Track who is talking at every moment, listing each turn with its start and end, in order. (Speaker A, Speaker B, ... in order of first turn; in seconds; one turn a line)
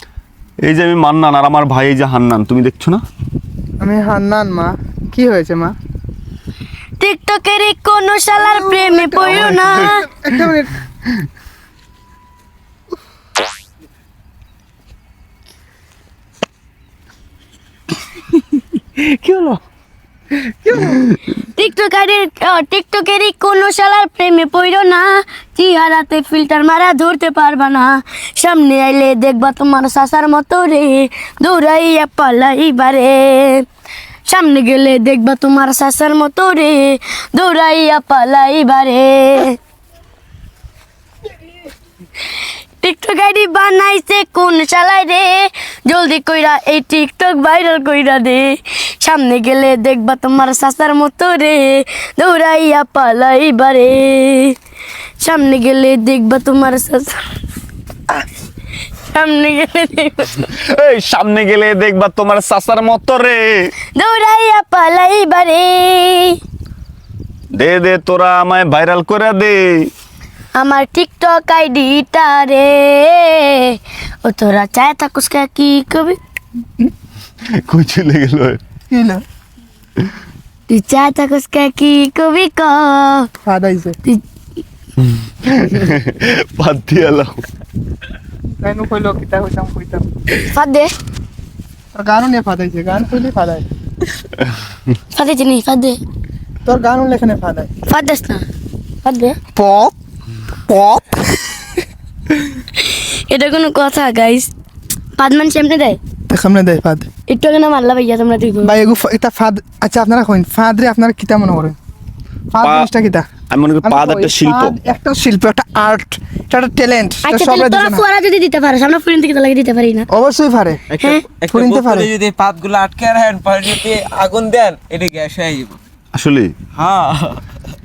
Speaker A: 0.7-3.0
Speaker B: 3.8-5.7
Speaker C: 7.0-10.1
Speaker B: 8.4-10.7
Speaker A: 9.3-9.9
Speaker B: 19.0-19.6
Speaker B: 20.6-21.0
Speaker C: 21.4-33.7
Speaker C: 34.3-39.6
Speaker C: 42.8-54.6
Speaker C: 55.2-57.2
Speaker C: 59.1-60.5
Speaker A: 60.5-63.7
Speaker C: 64.0-66.4
Speaker A: 67.5-69.9
Speaker C: 70.5-76.2
Speaker A: 77.6-78.6
Speaker B: 78.9-79.2
Speaker C: 80.7-83.3
Speaker B: 83.5-84.0
Speaker A: 85.5-87.4
Speaker B: 88.6-90.0
Speaker C: 90.4-90.9
Speaker B: 92.0-93.7
Speaker C: 95.1-96.0
Speaker B: 96.7-97.7
Speaker C: 97.9-98.4
Speaker C: 99.0-99.4
Speaker B: 99.5-99.9
Speaker B: 100.7-101.7
Speaker C: 102.8-104.5
Speaker C: 105.2-106.0
Speaker B: 106.3-107.1
Speaker C: 107.3-108.7
Speaker B: 108.6-111.8
Speaker B: 112.5-113.3
Speaker A: 112.6-112.9
Speaker A: 113.5-114.8
Speaker B: 113.8-118.0
Speaker C: 117.2-120.1
Speaker B: 120.1-120.8
Speaker D: 120.9-125.8
Speaker B: 121.5-122.1
Speaker A: 126.2-126.5
Speaker D: 126.8-127.4